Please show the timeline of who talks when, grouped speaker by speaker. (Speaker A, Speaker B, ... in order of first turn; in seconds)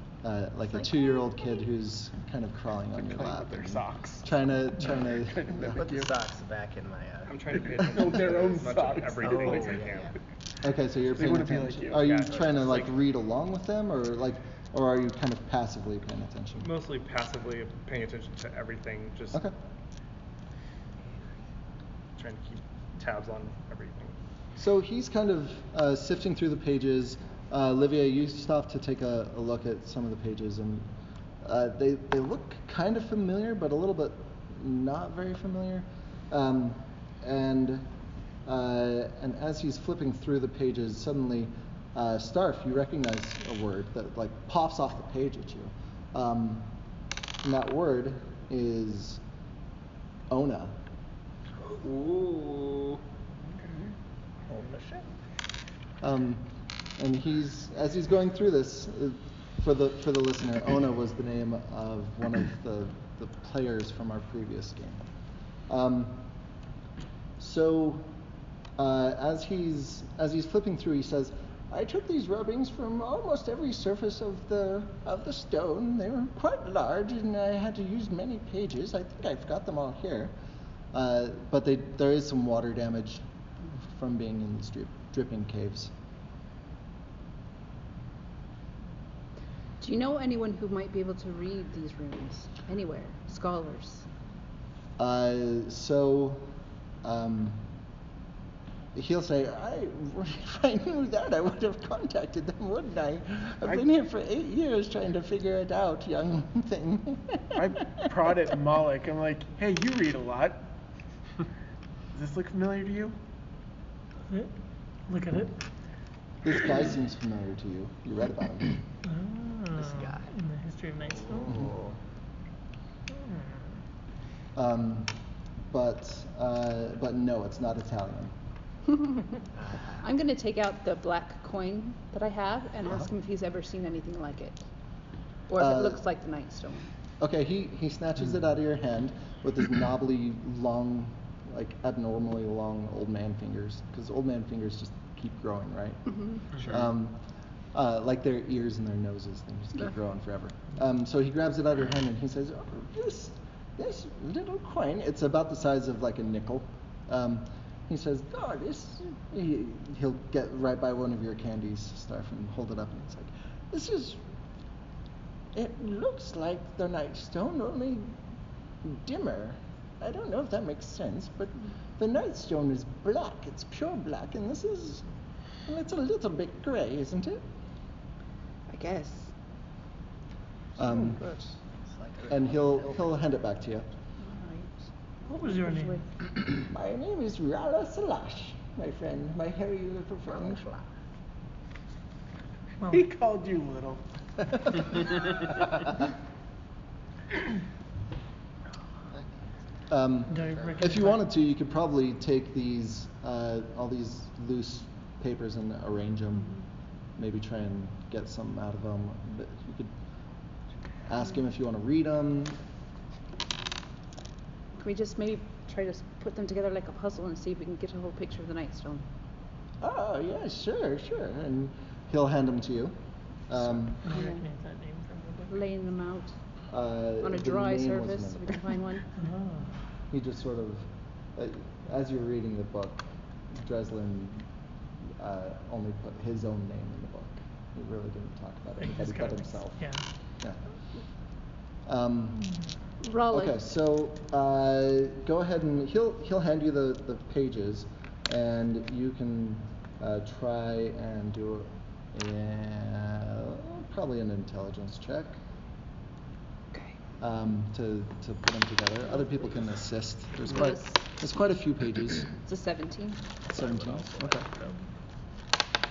Speaker A: 0.2-5.8, 10.6-16.7, 24.6-30.9, 31.4-37.9, 38.5-46.7, 47.4-49.2, 50.3-50.8, 56.0-56.5, 57.0-65.0, 65.7-66.2, 67.4-68.1, 68.8-80.3, 80.9-83.2, 83.9-85.9, 95.0-96.5, 97.0-97.6, 98.9-108.1, 116.4-118.8, 124.5-125.1, 125.7-128.3, 135.6-136.0, 137.2-147.2, 147.7-164.2, 165.5-168.1, 168.8-175.0, 175.7-177.4, 180.8-181.2, 182.3-183.9, 186.6-190.6, 199.9-206.5, 207.2-209.9, 211.1-212.6, 219.8-222.9, 223.5-224.0, 226.7-228.5, 230.1-234.5, 235.2-239.9, 241.8-242.5, 243.3-255.4, 257.2-262.3, 263.5-264.4
Speaker B: 0.8-1.2, 89.8-94.1, 130.0-134.7, 135.5-136.9, 178.7-179.3, 180.8-181.5, 184.2-184.9, 185.4-186.1, 214.8-219.1, 224.1-224.4, 225.5-226.3, 227.2-229.1, 243.0-243.6, 260.5-261.1, 262.4-263.2
Speaker C: 3.0-4.3, 4.9-6.2, 7.5-9.9, 11.1-12.3, 53.5-53.9, 107.5-110.7, 112.1-113.2, 192.9-194.0
Speaker D: 5.7-7.8, 9.2-10.1, 119.8-120.3, 121.0-122.0, 129.6-130.0, 181.9-183.2, 190.3-190.8, 199.1-199.4
Speaker E: 7.3-10.1, 11.9-12.9, 16.6-19.4, 22.2-24.2
Speaker F: 51.9-53.0, 263.6-264.5
Speaker G: 115.1-115.6, 119.0-121.6, 123.2-123.8, 185.3-186.1, 192.8-193.1, 200.3-201.3, 223.9-225.7, 229.2-229.8, 238.8-240.0